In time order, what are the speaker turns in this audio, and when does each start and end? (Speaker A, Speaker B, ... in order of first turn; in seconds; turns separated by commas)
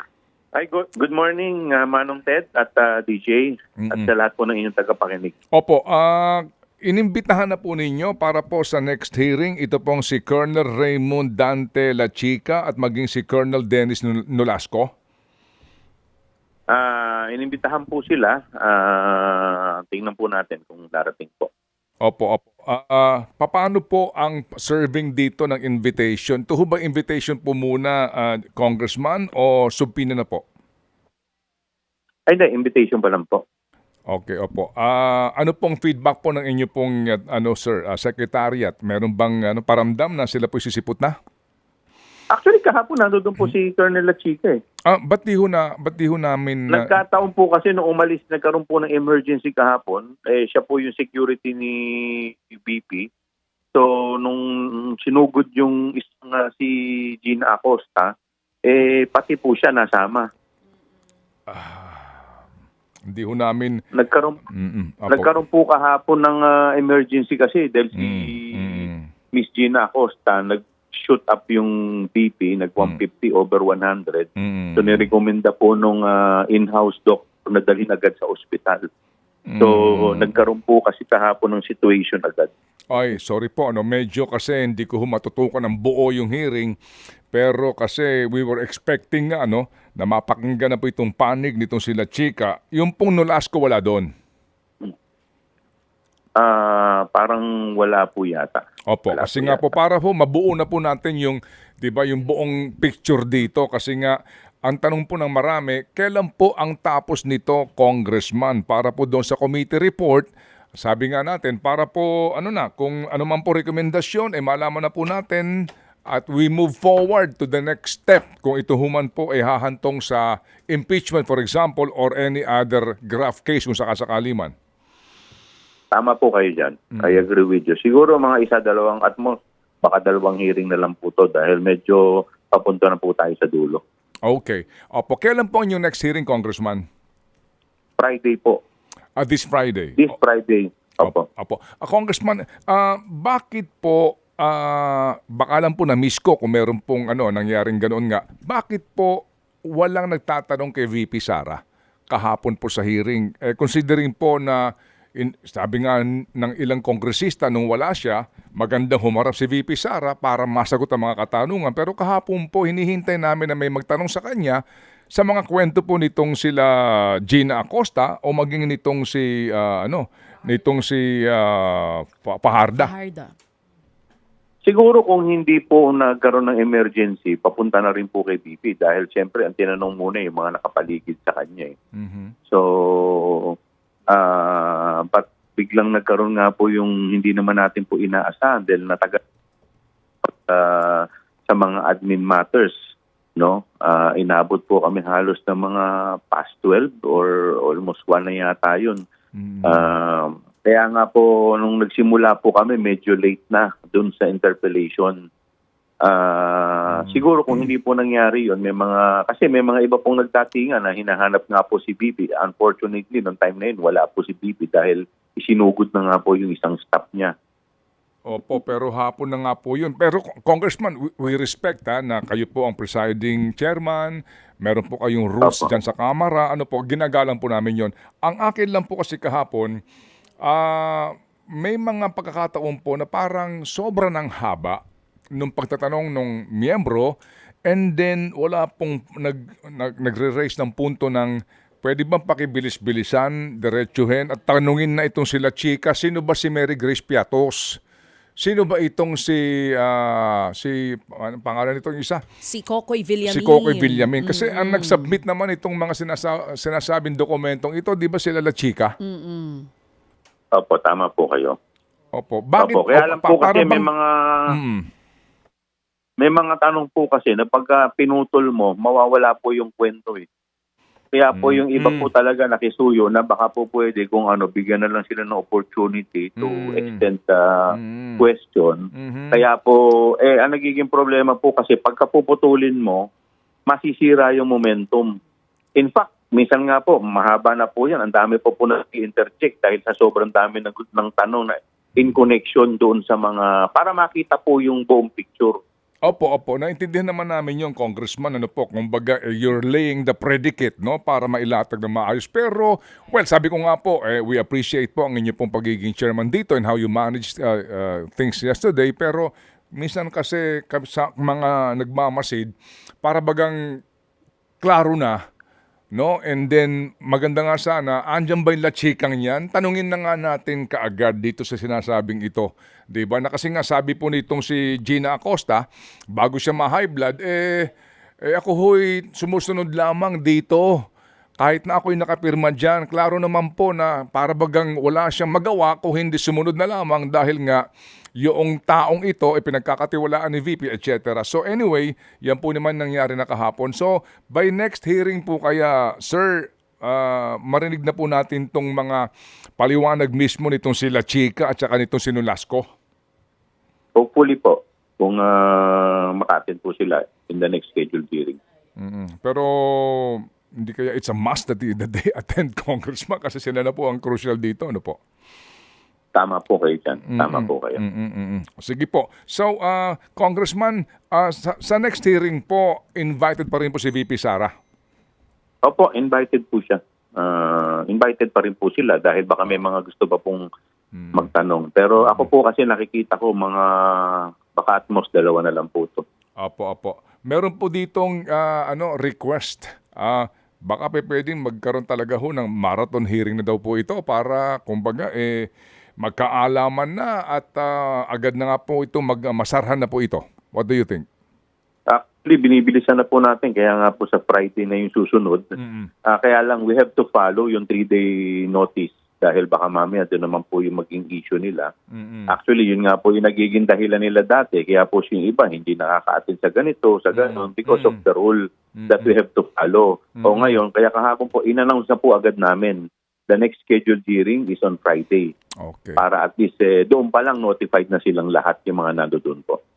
Speaker A: 0.6-5.3, Speaker B: 3.8-4.1, Speaker B: 5.5-14.9, Speaker A: 16.7-21.5, Speaker B: 22.0-30.4, Speaker A: 32.3-33.4, Speaker B: 34.1-41.1, Speaker A: 42.3-44.6, Speaker B: 44.9-47.0, Speaker A: 46.7-53.1, Speaker A: 53.7-58.1, Speaker A: 58.6-60.3, Speaker B: 61.5-62.3, Speaker B: 63.1-63.8, Speaker A: 63.9-64.4, Speaker B: 64.5-65.3, Speaker A: 65.1-78.9, Speaker B: 68.0-69.1, Speaker B: 74.4-75.1, Speaker B: 79.5-80.3, Speaker A: 79.6-82.5, Speaker B: 82.9-86.8, Speaker B: 87.3-94.1, Speaker A: 96.4-99.7, Speaker B: 98.9-110.3, Speaker B: 110.8-115.5, Speaker B: 116.1-124.5, Speaker A: 125.9-133.8, Speaker B: 127.0-127.2, Speaker B: 134.2-136.8, Speaker A: 138.0-138.6, Speaker B: 139.2-140.0, Speaker A: 140.0-141.2, Speaker B: 141.0-151.6, Speaker B: 152.1-154.6, Speaker B: 155.2-164.6, Speaker B: 165.1-172.9, Speaker C: 172.8-173.3, Speaker A: 174.6-181.7, Speaker B: 181.9-182.3, Speaker A: 182.5-183.6, Speaker A: 184.1-189.2, Speaker A: 190.2-192.7, Speaker A: 193.4-199.0, Speaker B: 199.3-199.9, Speaker A: 199.6-205.2, Speaker A: 206.0-217.3, Speaker B: 206.9-207.7, Speaker B: 218.2-229.7, Speaker A: 225.4-225.7, Speaker B: 230.4-234.8, Speaker B: 235.4-237.1, Speaker B: 237.7-241.3, Speaker B: 241.8-247.8, Speaker B: 248.4-252.2, Speaker C: 252.4-255.2, Speaker B: 253.2-258.9, Speaker C: 259.0-259.7, Speaker A: 260.5-261.6, Speaker B: 262.1-263.9, Speaker A: 262.6-264.4, Speaker B: 264.5-264.9, Speaker A: 266.2-270.2, Speaker A: 271.1-283.1, Speaker B: 271.3-272.1, Speaker B: 276.4-277.0, Speaker B: 277.7-278.2, Speaker B: 278.9-279.4, Speaker A: 283.7-285.1, Speaker A: 285.8-295.6, Speaker B: 296.0-312.5, Speaker B: 313.0-313.6, Speaker B: 314.6-315.2, Speaker B: 315.9-325.6, Speaker B: 326.1-327.7, Speaker B: 328.2-330.7, Speaker B: 331.4-337.6, Speaker B: 338.2-349.0, Speaker B: 349.6-352.6, Speaker A: 353.9-358.4, Speaker B: 358.8-365.0, Speaker A: 366.1-367.8, Speaker B: 367.1-374.5, Speaker A: 375.6-380.4, Speaker B: 380.9-381.3, Speaker A: 381.1-386.0, Speaker B: 386.4-395.5, Speaker B: 396.0-401.0, Speaker A: 401.9-405.5, Speaker B: 405.6-405.9, Speaker A: 406.1-411.7, Speaker B: 411.9-412.3, Speaker A: 412.3-422.8, Speaker B: 417.1-418.0, Speaker B: 418.8-419.1, Speaker B: 420.2-420.6, Speaker A: 423.3-425.3, Speaker B: 425.6-426.0, Speaker A: 426.0-429.6